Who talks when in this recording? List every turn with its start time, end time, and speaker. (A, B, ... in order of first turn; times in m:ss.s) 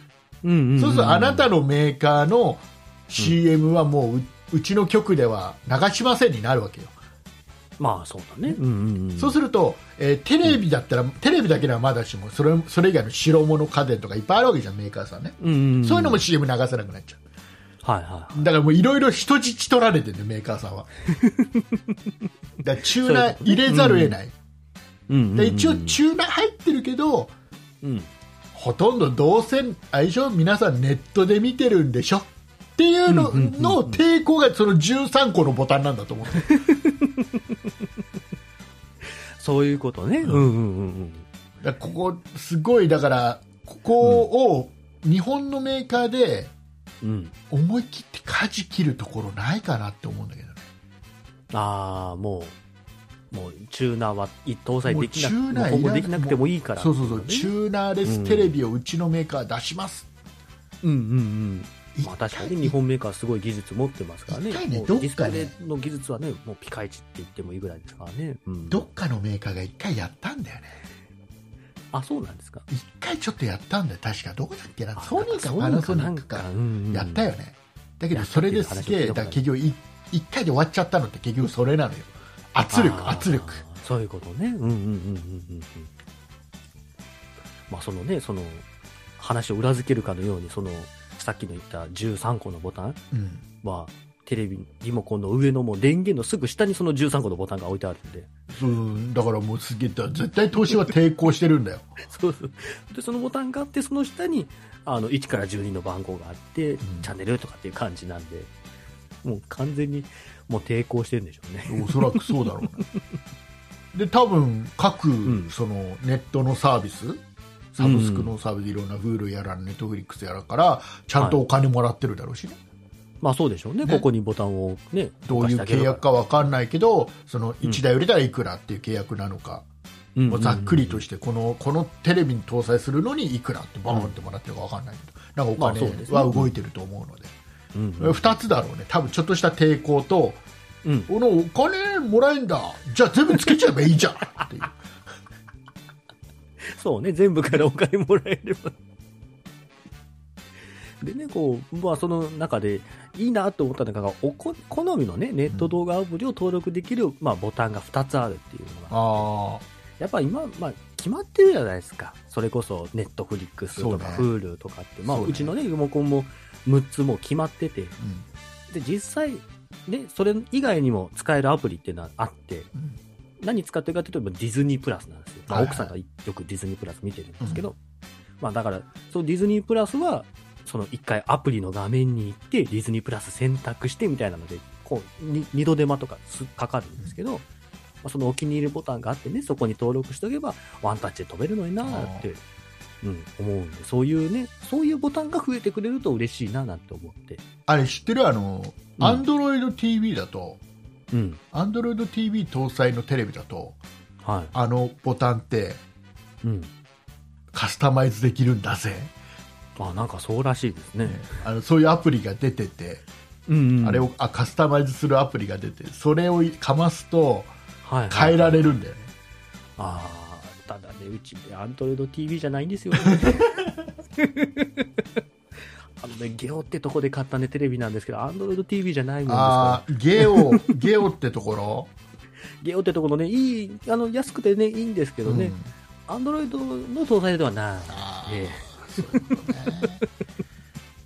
0:00.4-0:01.5 A
0:00.8-0:06.9 B
0:07.8-0:09.4 A
0:09.2-0:17.2 B
0:15.4-0:16.2 A
0:17.8-0:18.5 A
0:18.3-0:20.9 B
0:21.1-0:21.9 A
0:22.6-0:24.3 B
0:22.9-0:24.2 A
0:25.1-0:26.0 A
0:25.4-0:27.3 B
0:27.8-0:28.1 A
0:28.5-0:36.5 B
0:33.1-0:34.0 A
0:36.4-0:37.4 A
0:39.4-0:41.3 A
0:40.2-0:40.5 B
0:41.6-0:46.5 B
0:44.0-0:44.3 A
0:47.0-0:47.3 A
0:47.5-0:50.6 B
0:51.5-0:52.6 A
0:53.3-0:57.5 A
0:54.9-1:00.1 B
0:58.0-0:58.6 A
1:00.8-1:08.9 A
1:02.0-1:02.8 B
1:04.3-1:05.5 B
1:08.7-1:10.8 B
1:11.9-1:12.7 A
1:12.7-1:23.6 B
1:15.0-1:17.3 A
1:18.1-1:19.4 A
1:22.7-1:25.9 A
1:27.7-1:28.6 A
1:29.2-1:33.0 A
1:33.1-1:33.4 B
1:33.6-1:38.3 A
1:38.5-1:41.9 B
1:42.0-1:48.5 A
1:46.8-1:47.1 B
1:49.2-1:53.0 A
1:51.7-1:52.9 B
1:53.9-1:57.2 B
1:55.2-1:55.5 A
1:57.7-2:02.6 B
1:57.8-1:58.4 A
2:03.2-2:06.0 A
2:05.3-2:09.6 B
2:10.2-2:11.0 A
2:10.3-2:17.3 B
2:15.6-2:16.5 A
2:17.7-2:18.4 A
2:18.0-2:20.4 B
2:20.8-2:21.1 A
2:21.1-2:24.8 B
2:26.6-2:28.8 A
2:31.0-2:39.3 A
2:38.9-2:39.6 B
2:40.0-2:48.0 A
2:43.8-2:44.3 B
2:45.1-2:45.5 B
2:48.0-2:48.3 B
2:48.7-2:52.7 A
2:53.4-2:57.8 A
2:55.5-2:55.9 B
2:57.4-2:57.7 B
2:58.4-3:07.5 A
3:08.0-3:12.4 A
3:11.8-3:12.3 B
3:13.0-3:17.4 A
3:17.7-3:20.6 B
3:19.0-3:19.2 A
3:21.1-3:21.4 A
3:21.5-3:23.8 B
3:24.2-3:24.5 A
3:24.5-3:25.8 B
3:26.4-3:26.7 A
3:27.5-3:29.1 B
3:29.8-3:31.4 A
3:31.0-3:33.0 B
3:33.5-3:34.1 A
3:33.8-3:37.5 B
3:37.8-3:38.7 A
3:38.1-3:39.1 B
3:39.8-3:44.9 A
3:46.0-3:50.6 A
3:49.3-3:51.9 B
3:52.6-3:55.6 A
3:55.2-3:55.7 B
3:56.1-4:00.0 A
3:57.9-4:00.0 B